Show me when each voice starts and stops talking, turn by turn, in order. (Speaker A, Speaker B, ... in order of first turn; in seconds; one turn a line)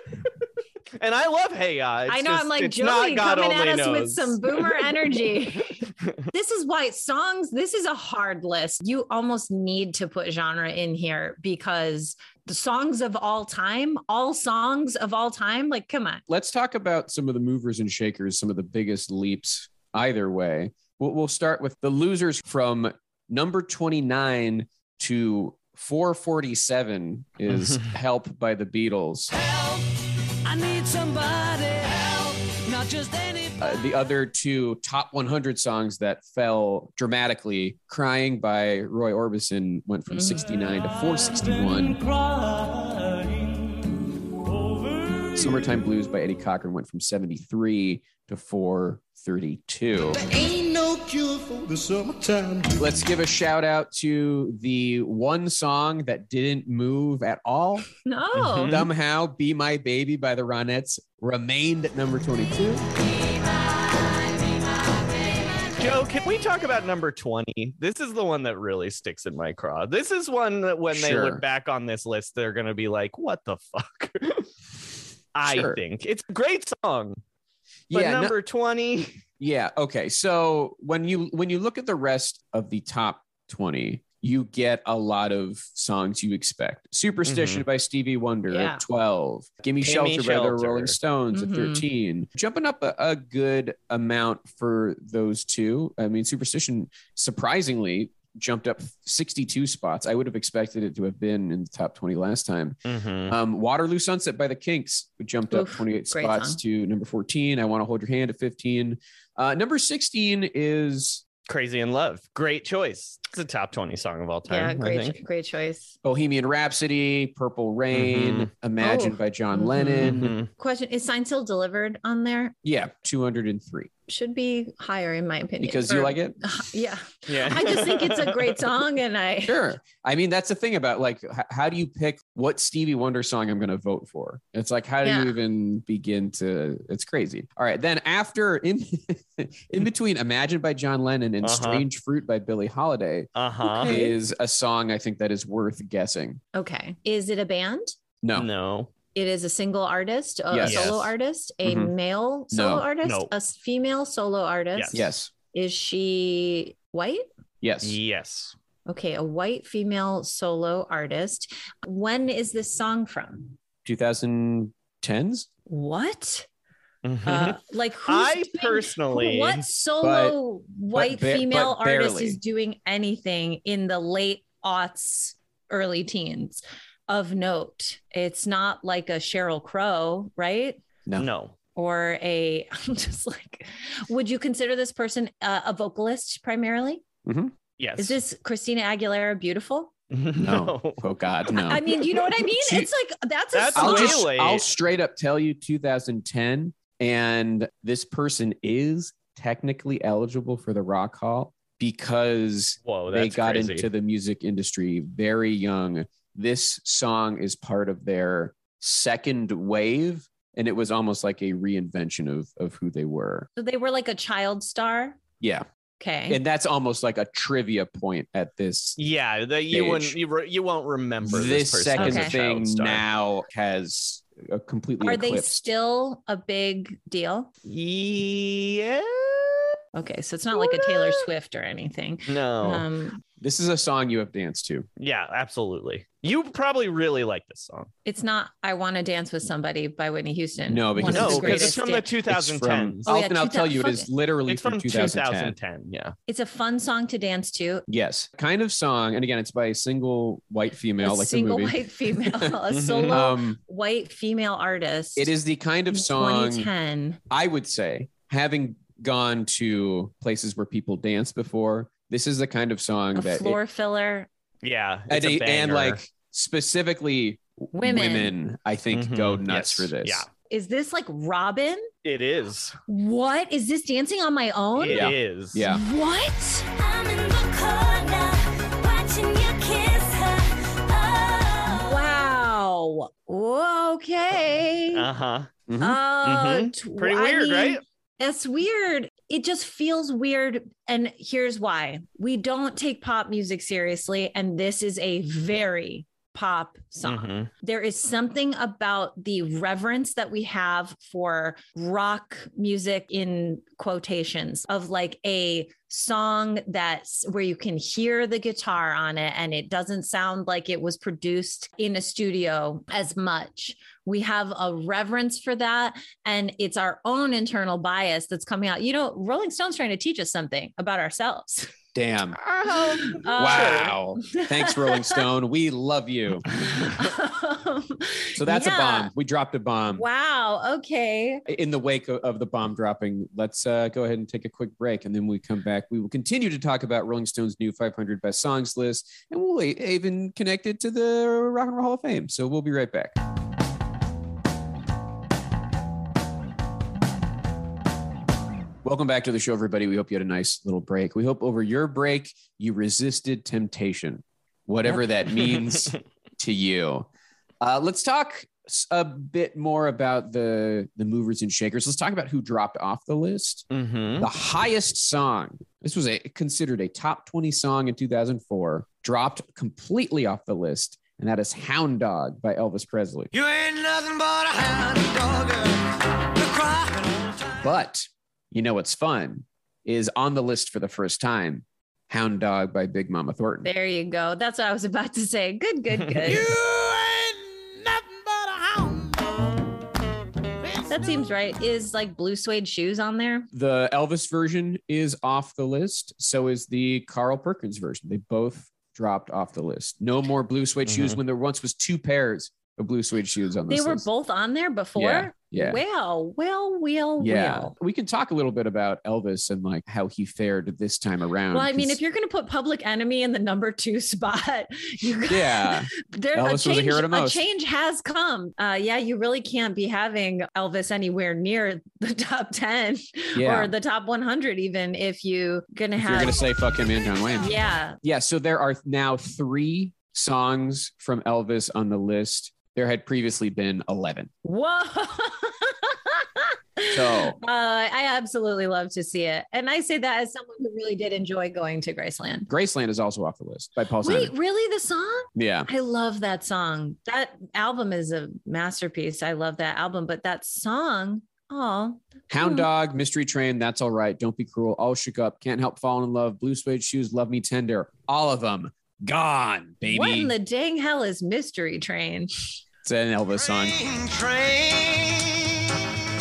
Speaker A: 1.0-5.3
Speaker B: 2.1-5.8
Speaker B: 6.3-16.2
Speaker C: 16.3-29.3
Speaker A: 27.5-27.9
Speaker D: 29.3-29.9
Speaker D: 30.4-33.5
Speaker C: 33.6-42.0
Speaker B: 40.1-40.4
Speaker D: 41.2-43.7
Speaker D: 44.6-45.4
Speaker C: 45.3-50.2
Speaker D: 50.1-52.8
Speaker C: 52.8-57.9
Speaker B: 58.0-58.7
Speaker A: 58.4-58.9
Speaker C: 58.7-62.8
Speaker A: 65.8-74.5
Speaker C: 70.9-71.4
Speaker A: 75.3-77.2
Speaker C: 75.4-75.8
Speaker C: 77.9-78.3
Speaker A: 77.9-79.2
Speaker C: 79.4-102.8
Speaker A: 87.2-87.6
Speaker B: 88.5-88.8
Speaker A: 89.8-91.0
Speaker B: 91.3-91.8
Speaker A: 102.8-103.3
Speaker C: 103.3-111.2
Speaker B: 105.5-106.6
Speaker A: 111.5-115.2
Speaker B: 114.5-115.9
Speaker C: 116.0-120.3
Speaker A: 117.9-118.5
Speaker B: 118.8-122.5
Speaker A: 120.0-120.5
Speaker C: 122.6-123.9
Speaker B: 124.1-129.6
Speaker C: 125.6-126.4
Speaker A: 127.3-128.6
Speaker C: 129.4-143.3
Speaker B: 135.0-135.3
Speaker A: 141.4-141.8
Speaker A: 143.3-144.0
Speaker B: 143.6-144.2
Speaker C: 143.8-146.4
Speaker B: 146.5-147.9
Speaker C: 148.2-148.5
Speaker A: 148.3-148.9
Speaker B: 149.1-157.3
Speaker C: 150.5-150.9
Speaker A: 150.6-151.1
Speaker C: 151.6-151.9
Speaker C: 152.5-152.8
Speaker A: 153.0-153.3
Speaker A: 154.7-155.0
Speaker C: 154.9-155.3
Speaker C: 157.6-158.0
Speaker A: 157.8-158.5
Speaker B: 158.9-163.6
Speaker C: 163.8-165.5
Speaker B: 165.7-166.5
Speaker A: 167.0-169.7
Speaker B: 167.2-180.8
Speaker C: 170.0-170.4
Speaker C: 170.9-172.4
Speaker A: 181.2-181.5
Speaker B: 181.7-187.0
Speaker C: 187.2-187.5
Speaker A: 187.8-188.2
Speaker B: 188.0-189.9
Speaker A: 190.1-191.0
Speaker C: 190.4-192.9
Speaker B: 191.5-194.2
Speaker A: 193.5-194.7
Speaker C: 193.7-213.5
Speaker A: 202.8-203.9
Speaker B: 213.6-215.2
Speaker B: 216.0-216.4
Speaker C: 216.3-219.0
Speaker A: 219.0-223.0
Speaker C: 219.7-220.2
Speaker C: 221.2-225.6
Speaker B: 222.0-222.3
Speaker B: 225.0-227.5
Speaker A: 227.6-229.8
Speaker B: 229.9-233.2
Speaker A: 230.5-231.3
Speaker A: 232.3-232.8
Speaker C: 233.4-234.8
Speaker A: 235.0-237.9
Speaker B: 238.0-242.1
Speaker C: 240.7-245.6
Speaker A: 241.1-243.1
Speaker B: 243.1-244.1
Speaker A: 244.5-246.1
Speaker B: 246.3-247.8
Speaker C: 247.9-252.5
Speaker B: 251.0-255.3
Speaker A: 252.7-253.2
Speaker C: 253.1-253.6
Speaker C: 255.2-256.7
Speaker B: 255.9-257.2
Speaker C: 257.3-263.6
Speaker B: 263.1-264.3
Speaker A: 264.6-266.0
Speaker C: 265.1-270.2
Speaker B: 267.7-268.3
Speaker A: 268.9-270.3
Speaker B: 270.5-271.9
Speaker A: 272.0-272.8
Speaker B: 272.9-276.7
Speaker A: 274.8-275.6
Speaker C: 274.9-275.8
Speaker E: 276.7-282.1
Speaker B: 281.7-285.1
Speaker A: 284.9-285.5
Speaker C: 285.7-286.0
Speaker B: 285.8-321.7
Speaker A: 286.2-287.8
Speaker A: 297.0-297.5
Speaker C: 321.9-322.4
Speaker A: 322.5-323.9
Speaker B: 322.6-325.2
Speaker C: 323.3-326.4
Speaker B: 326.8-329.1
Speaker C: 328.4-330.0
Speaker B: 329.9-331.4
Speaker C: 331.5-343.1
Speaker C: 348.8-357.1
Speaker A: 355.4-356.0
Speaker C: 357.6-363.6
Speaker A: 363.7-364.3
Speaker C: 364.2-373.3
Speaker D: 373.3-377.6
Speaker C: 377.6-383.7
Speaker B: 383.6-386.5
Speaker D: 386.2-389.3
Speaker D: 390.6-390.9
Speaker B: 390.9-393.5
Speaker C: 393.5-404.1
Speaker A: 400.9-401.2
Speaker B: 403.7-407.7
Speaker C: 404.9-405.8
Speaker C: 407.2-412.0
Speaker B: 411.5-426.4
Speaker C: 415.3-417.4
Speaker C: 423.3-423.7
Speaker C: 426.0-434.3
Speaker B: 427.4-428.0
Speaker B: 434.4-442.5
Speaker C: 436.9-437.4
Speaker C: 442.5-444.3
Speaker B: 444.0-452.7
Speaker C: 445.3-445.7
Speaker C: 452.3-460.3
Speaker B: 459.8-462.3
Speaker C: 462.8-463.8
Speaker D: 463.5-465.5